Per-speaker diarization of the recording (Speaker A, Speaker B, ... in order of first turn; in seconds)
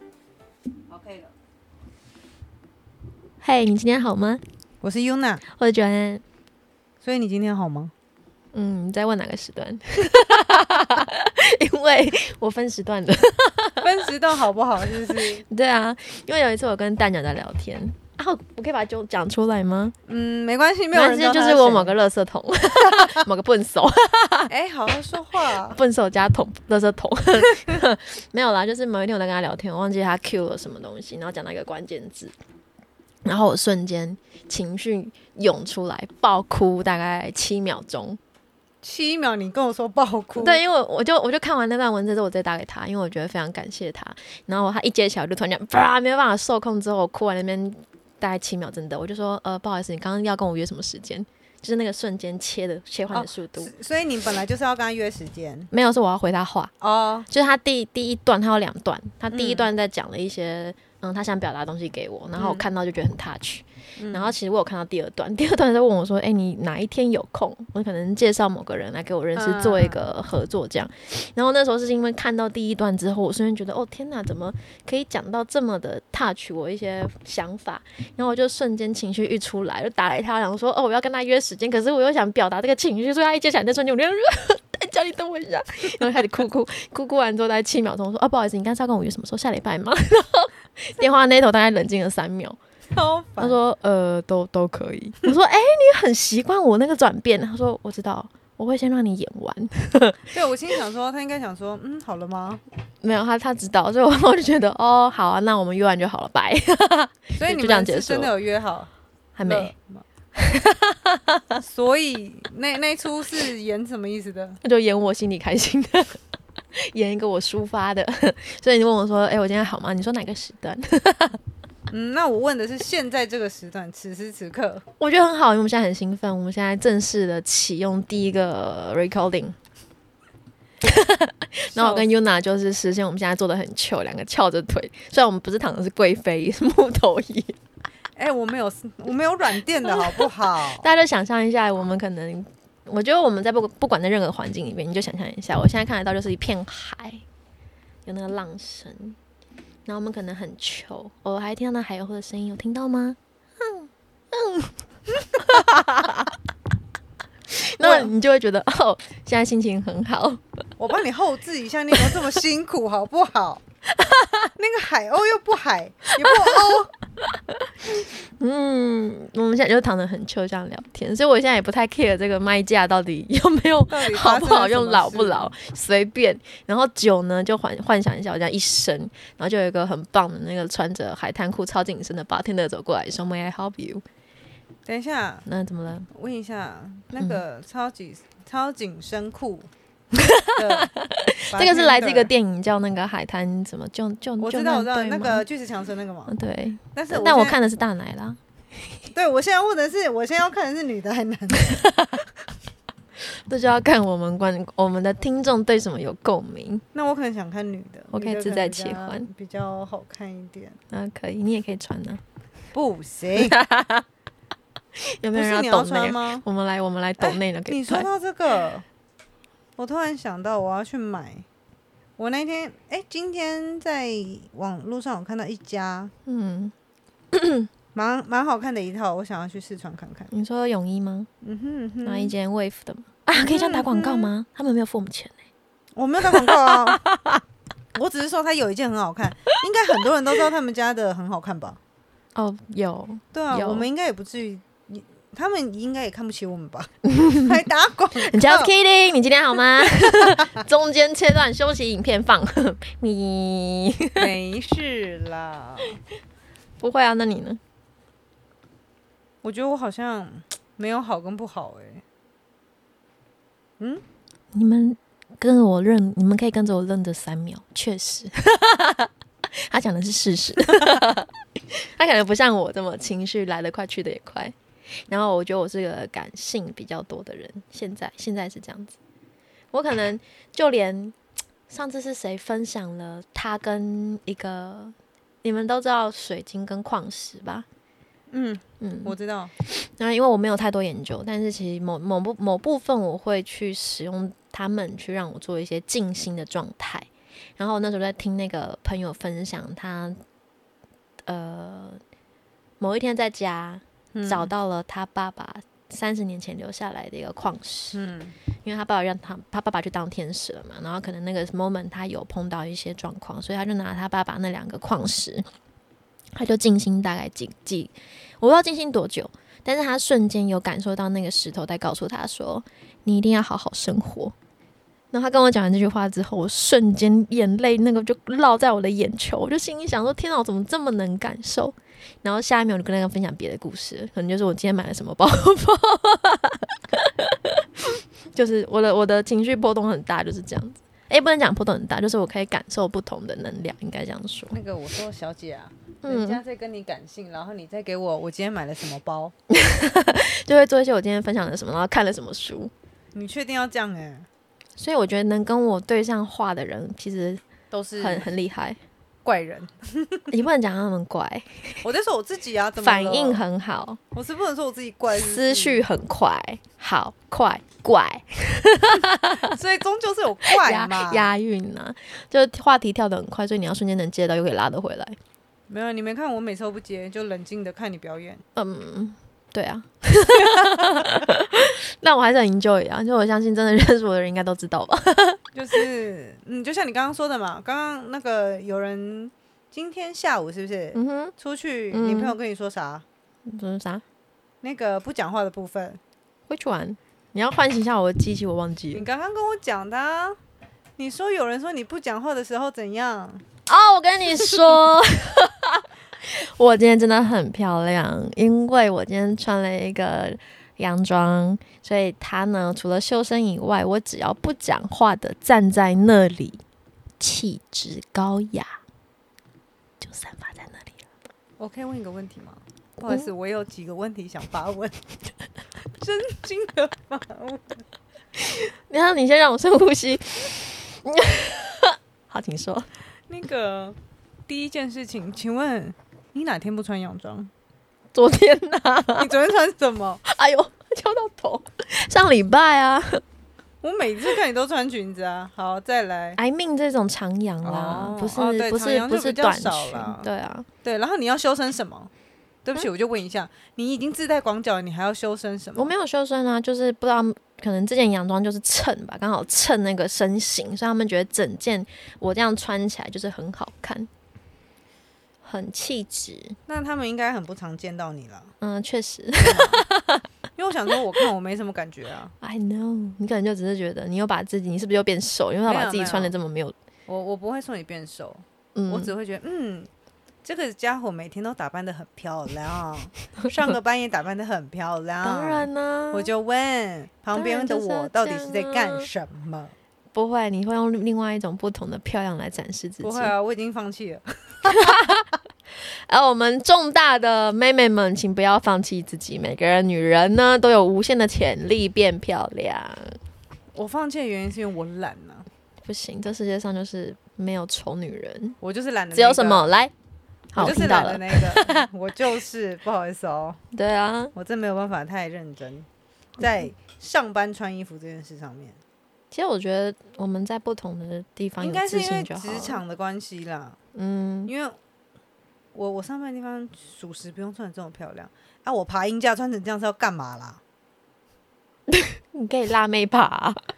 Speaker A: 0.9-1.3, 4.8-5.4, 7.0-7.9, 13.8-15.4, 20.1-21.9, 24.5-25.8, 38.8-40.6, 53.1-55.7, 56.8-57.3, 59.3-59.7, 62.4-62.7, 64.0-64.3, 69.3-70.0, 92.9-93.6, 100.3-102.6, 107.4-108.9, 109.4-110.0, 111.6-114.6, 121.9-124.8, 131.7-132.1, 138.2-140.9, 157.8-158.1, 160.8-163.6, 164.6-166.9, 173.9-175.5, 184.9-185.5, 186.1-189.7, 190.5-190.9, 191.5-192.3, 194.4-196.3, 196.9-197.6, 199.1-201.8, 206.9-210.8, 212.7-213.6, 215.3-216.4, 217.2-218.9, 219.8-221.4, 222.2-226.1, 227.9-230.3, 231.4-232.3, 233.4-234.3, 236.0-237.1, 237.9-241.8, 243.3-248.7, 249.8-250.6, 254.2-255.9, 259.4-262.0, 263.8-264.0, 288.3-289.5, 304.1-304.5, 307.9-308.4, 344.5-349.3, 353.1-354.3, 357.7-358.3, 359.2-360.3, 361.8-363.4, 364.1-365.9, 369.4-371.3, 375.7-378.4, 380.5-381.0, 385.6-393.0, 394.6-396.0, 398.9-400.4, 401.0-403.5, 404.4-404.7, 421.6-425.0, 425.9-427.9, 433.3-437.5, 439.2-440.2, 443.8-446.4, 447.6-450.3, 450.8-452.1, 452.6-455.9, 466.7-468.5, 469.4-469.9, 470.6-472.4, 475.7-476.3, 477.1-479.9, 480.4-489.7, 493.0-495.2, 503.7-505.5, 508.6-509.7, 510.6-513.6, 514.4-515.9, 516.4-518.8, 521.6-523.8, 524.5-524.8, 525.7-530.6
Speaker B: 3.4-4.4, 5.5-6.2, 8.5-13.9, 15.1-19.9, 20.9-24.5, 25.7-32.3, 33.2-38.2, 40.4-53.7, 55.7-56.7, 57.3-92.6, 93.4-100.3, 103.0-108.3, 109.4-109.7, 110.4-111.6, 114.6-116.2, 116.8-121.4, 125.0-129.6, 130.8-137.6, 139.8-147.2, 148.1-149.2, 149.9-156.3, 157.5-160.4, 163.9-164.5, 166.1-166.6, 167.2-184.0, 185.5-186.1, 187.2-187.4, 190.1-195.4, 196.3-198.4, 201.7-202.2, 203.3-206.8, 208.1-209.3, 210.9-212.2, 213.4-214.1, 215.0-218.1, 226.3-226.7, 227.3-227.7, 230.3-231.3, 232.1-235.4, 236.4-237.4, 242.3-243.9, 247.1-247.6, 248.2-254.3, 256.8-257.6, 264.5-274.5, 275.1-278.9, 279.7-281.1, 281.7-287.7, 288.8-300.2, 301.3-302.0, 302.8-308.0, 308.6-315.5, 316.4-324.4, 325.1-344.6, 346.0-346.4, 349.5-352.7, 354.8-357.4, 358.0-358.8, 360.3-361.8, 362.8-364.0, 365.2-369.6, 370.5-375.2, 378.6-385.4, 390.9-391.3, 391.9-392.4, 393.5-394.0, 396.5-399.1, 403.7-416.6, 417.2-418.8, 420.0-421.0, 428.4-432.9, 438.1-439.3, 440.3-443.2, 446.4-450.7, 455.8-464.1, 465.4-466.6, 468.6-470.2, 472.4-476.8, 478.8-479.1, 485.2-486.3, 487.4-489.1, 490.1-493.3, 494.7-495.3, 495.9-503.2, 505.8-508.6, 509.1-509.9, 510.5-511.9, 513.7-514.3, 519.3-522.8, 524.0-524.5, 531.9-533.6